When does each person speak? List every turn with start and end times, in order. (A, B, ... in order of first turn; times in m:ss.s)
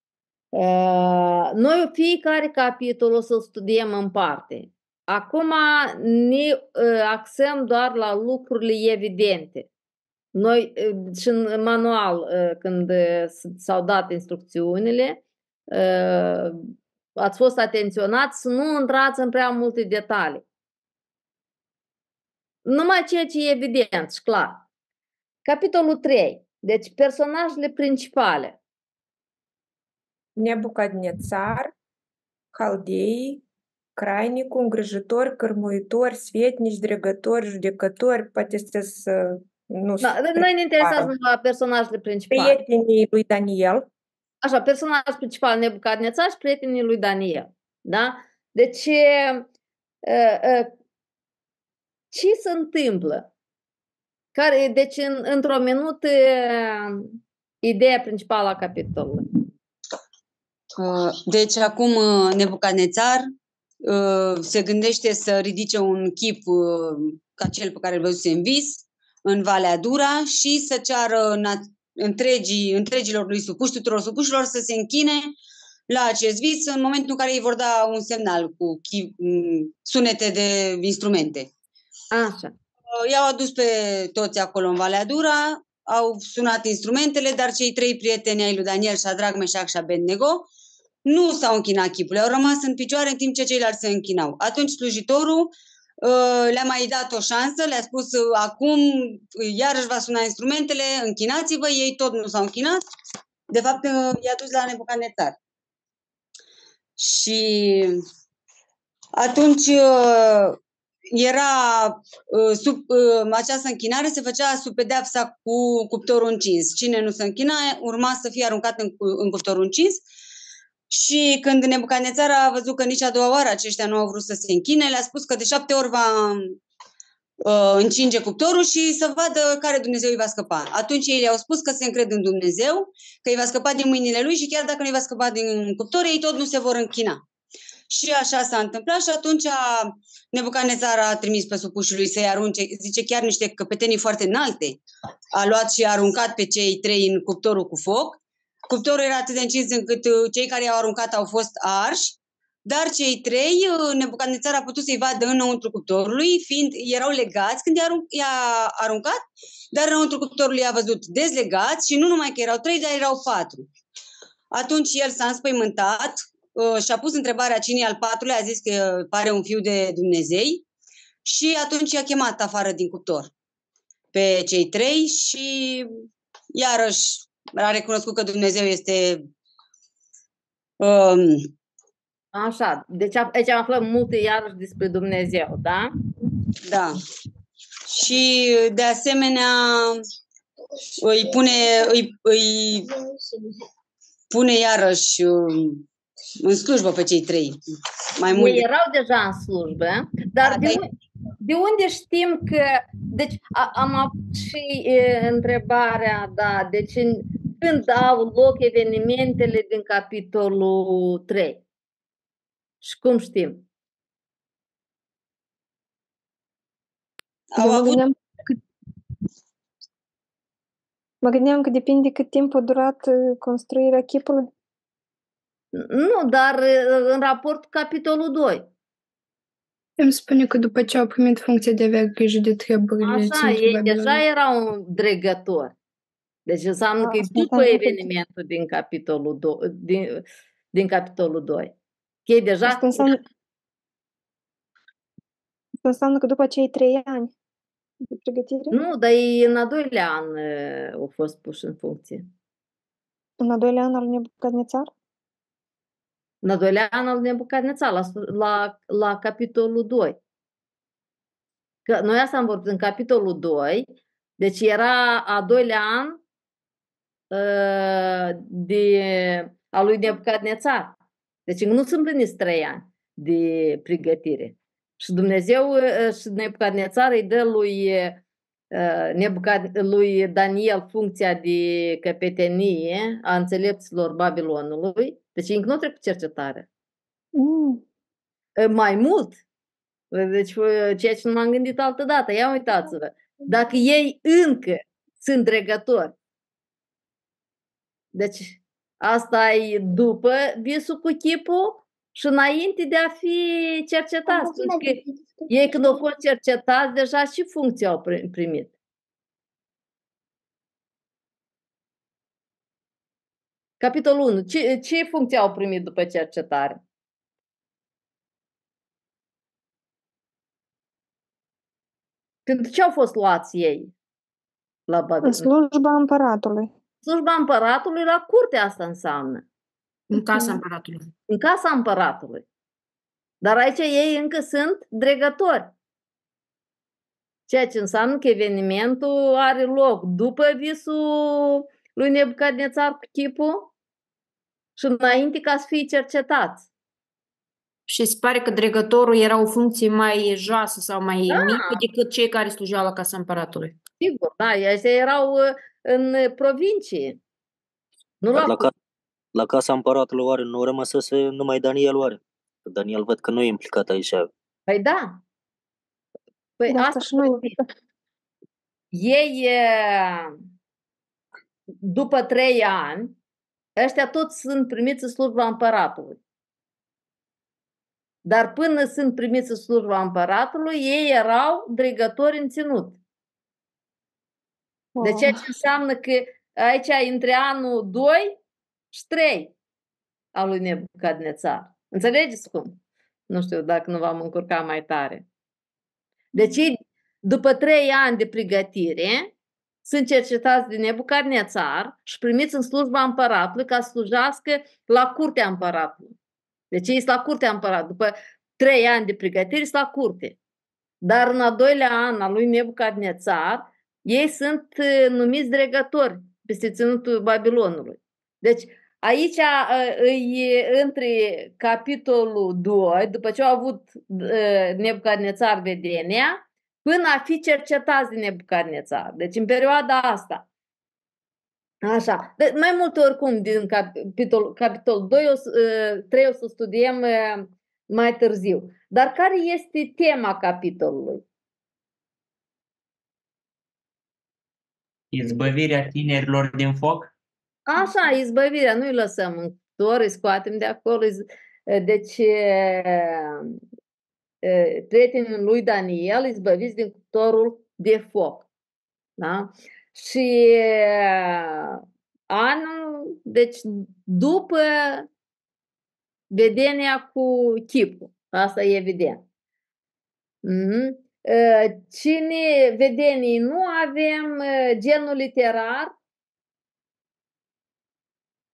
0:00.5-0:09.7 A
0:10.3-0:16.6 A
0:17.2-0:20.4 A
0:22.6-0:24.6 A
0:25.4-0:28.6 A
0:30.4-0:31.7 B
0:32.5-0:33.4 B
0:34.0-0:41.1 B
0:40.0-0:42.6 A
0:42.3-0:43.8 B
0:44.4-0:49.5 A
0:50.0-0:50.7 A
0:52.1-0:53.3 A
0:54.4-0:59.3 A
1:00.8-1:03.2 C
1:03.8-1:15.3 C
1:15.9-1:21.5 C
1:22.1-1:22.5 A
1:23.0-1:30.5 C
1:31.1-1:42.8 C
1:43.5-1:45.4 C
1:47.0-1:48.0 C
1:49.2-1:50.6 C
1:51.1-2:00.0 C
2:00.9-2:06.6 C
2:07.4-2:17.2 C
2:17.9-2:24.8 C
2:25.3-2:39.2 C
2:39.7-2:43.7 C
2:44.5-2:50.6 C
2:51.2-2:53.3 C
2:54.1-2:55.9 C
2:56.5-2:59.2 C
3:00.8-3:01.5 C
3:02.3-3:05.9 A
3:06.7-3:07.0 C
3:07.9-3:10.0 C
3:11.0-3:12.9 C
3:14.3-3:15.8 C
3:16.4-3:17.6 C
3:18.2-3:18.6 C
3:18.3-3:20.9 A
3:20.4-3:20.8 C
3:21.4-3:31.6 A
3:32.8-3:33.7 A
3:37.5-3:38.0 C
3:37.6-3:38.2 D
3:41.2-3:44.5 D
3:45.7-3:48.6 A
3:50.0-3:54.2 E
3:53.0-3:55.7 A
3:56.5-4:01.7 A
3:57.0-3:58.1 D
4:02.3-4:03.2 A
4:02.7-4:03.2 D
4:05.8-4:07.3 D
4:08.1-4:08.8 D
4:08.7-4:12.3 A
4:13.4-4:14.9 D
4:16.4-4:20.2 A
4:21.9-4:23.9 A
4:24.4-4:26.2 A
4:27.3-4:31.0 A
4:31.5-4:38.2 A
4:38.7-4:46.7 A
4:47.3-4:47.8 D
4:48.6-4:49.4 A
4:50.1-4:56.1 A
4:58.1-5:08.7 A
5:13.8-5:16.8 A
5:22.5-5:23.9 A
5:24.9-5:25.5 A
5:25.2-5:26.7 D
5:27.0-5:29.4 A
5:30.1-5:31.1 F
5:31.3-5:32.4 A
5:33.4-5:35.7 A
5:37.5-5:43.7 A
5:44.8-5:46.7 A
5:47.9-5:53.8 F
5:51.3-5:51.8 A
5:54.0-5:57.2 A
5:58.2-5:58.7 A
5:58.3-5:58.7 G
5:59.4-6:04.3 G
6:04.7-6:05.2 A
6:06.6-6:07.6 A
6:06.7-6:07.6 D
6:08.9-6:10.3 A
6:11.8-6:13.2 A
6:13.8-6:16.2 A
6:18.2-6:23.0 A
6:25.0-6:25.3 D
6:25.0-6:28.4 A
6:28.9-6:29.5 A
6:30.3-6:32.8 A
6:33.3-6:35.2 A
6:36.4-6:39.3 A
6:39.8-6:46.1 A
6:46.7-6:50.4 A
6:51.0-7:10.4 A
7:11.8-7:21.2 A
7:25.1-7:27.1 H
7:27.7-7:33.6 A
7:34.4-7:38.5 A
7:39.2-7:45.1 A
7:46.3-7:49.2 A
7:50.4-7:55.9 A